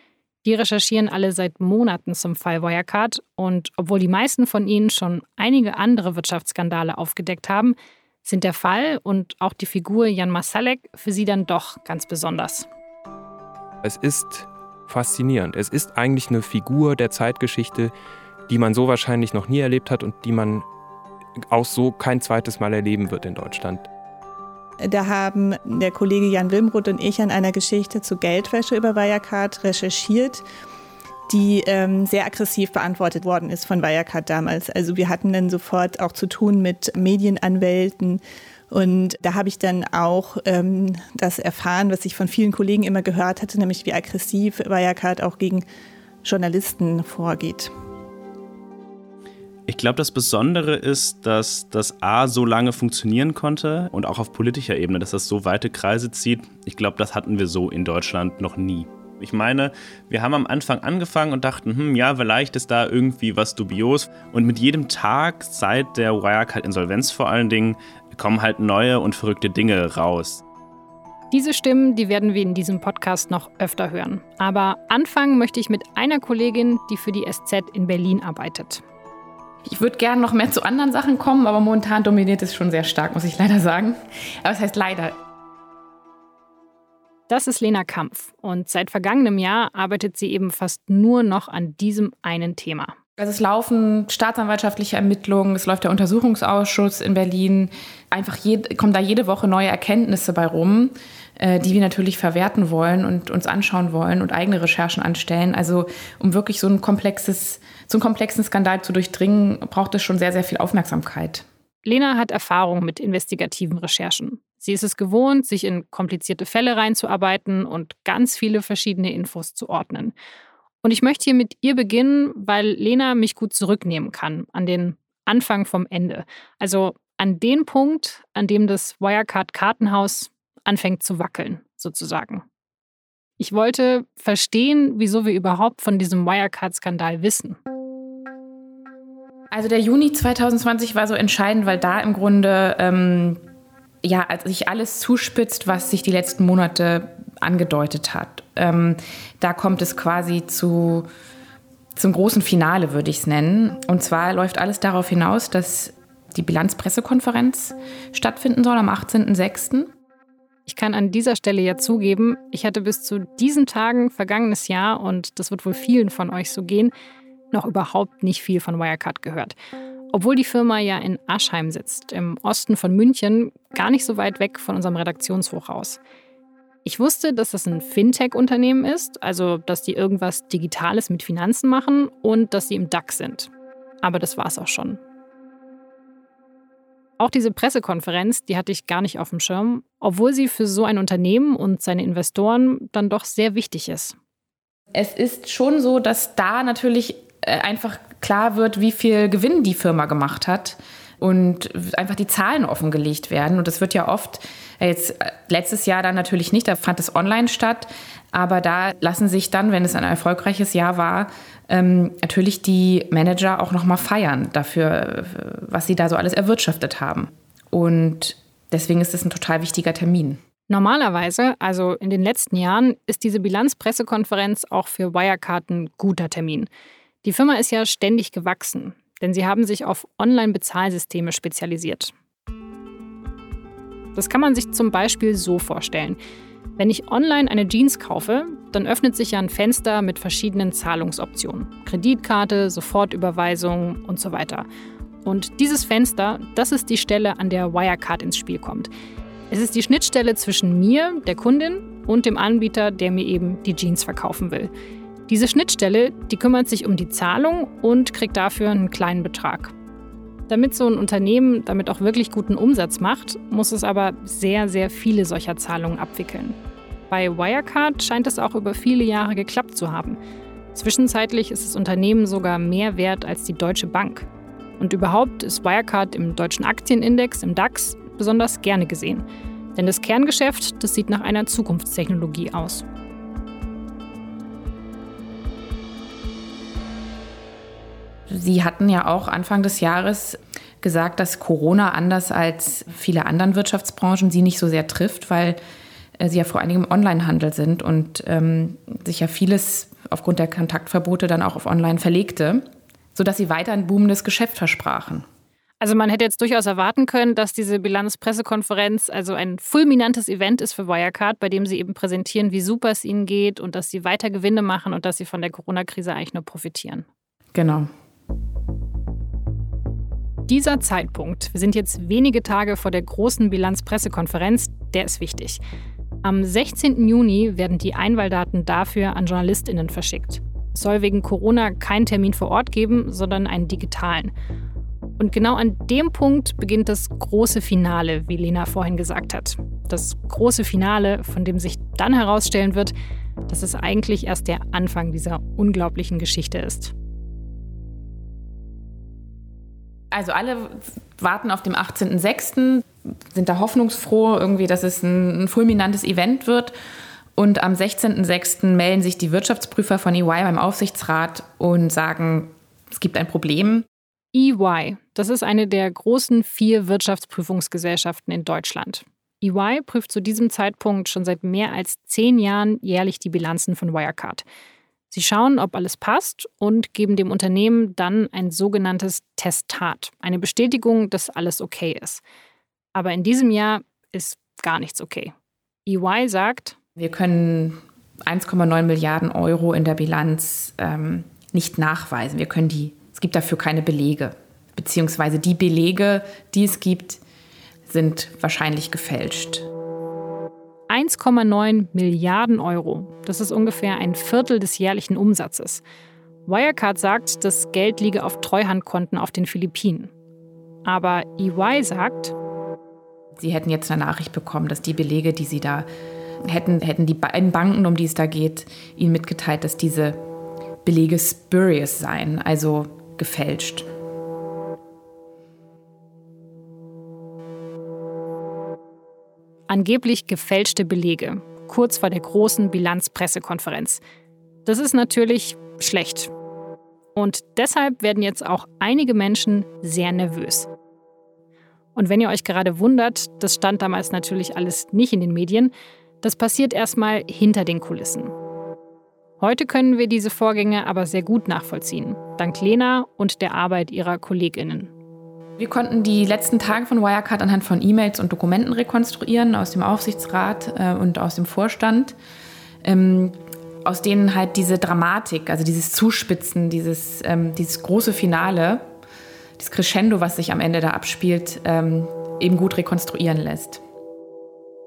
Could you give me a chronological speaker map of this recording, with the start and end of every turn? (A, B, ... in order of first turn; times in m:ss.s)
0:00.4-0:12.6 A
0:13.8-0:17.9 B
0:18.5-0:20.6 B
0:21.5-0:23.9 B
0:24.8-0:30.4 C
0:31.3-0:45.6 C
0:46.2-0:47.7 C
0:49.7-1:10.4 D
1:11.3-1:18.8 A
1:19.6-1:25.2 E
1:27.3-1:33.0 A
1:33.2-1:51.4 E
1:51.8-2:00.1 A
2:00.8-2:12.4 A
2:13.4-2:17.6 A
2:19.5-2:23.4 E
2:24.0-2:31.1 E
2:32.0-2:39.9 E
2:40.7-2:46.9 A
2:47.5-2:49.5 A
2:50.1-2:56.0 A
2:56.8-3:03.5 A
3:04.0-3:05.0 A
3:07.2-3:14.1 A
3:14.9-3:40.4 E
3:40.7-3:46.7 A
3:47.2-3:52.1 A
3:54.2-3:56.2 A
3:56.8-4:04.7 A
4:05.2-4:08.9 A
4:09.5-4:14.7 A
4:15.3-4:19.7 A
4:20.5-4:26.6 A
4:27.1-4:30.2 A
4:30.7-4:34.3 A
4:34.8-4:42.8 A
4:48.3-4:55.6 E
4:56.2-5:05.2 E
5:05.8-5:17.0 A
5:17.5-5:17.9 E
5:20.5-5:25.6 A
5:26.2-5:34.3 A
5:35.2-5:42.9 A
5:43.5-5:46.9 A
5:50.1-5:56.7 E
5:57.4-6:03.8 E
6:04.3-6:14.4 A
6:15.1-6:22.2 A
6:22.9-6:25.3 A
6:25.8-6:26.8 A
6:27.0-6:37.2 E
6:37.9-6:39.7 E
6:40.9-6:45.8 A
6:46.4-6:50.1 A
6:50.8-6:52.3 A
6:53.4-6:55.9 E
6:56.4-7:00.2 E
7:00.8-7:03.8 E
7:09.7-7:14.0 A
7:14.6-7:16.3 A
7:17.1-7:20.7 A
7:21.9-7:28.3 A
7:29.4-7:34.9 A
7:35.6-7:42.2 E
7:42.8-7:48.8 E
7:49.6-7:53.8 E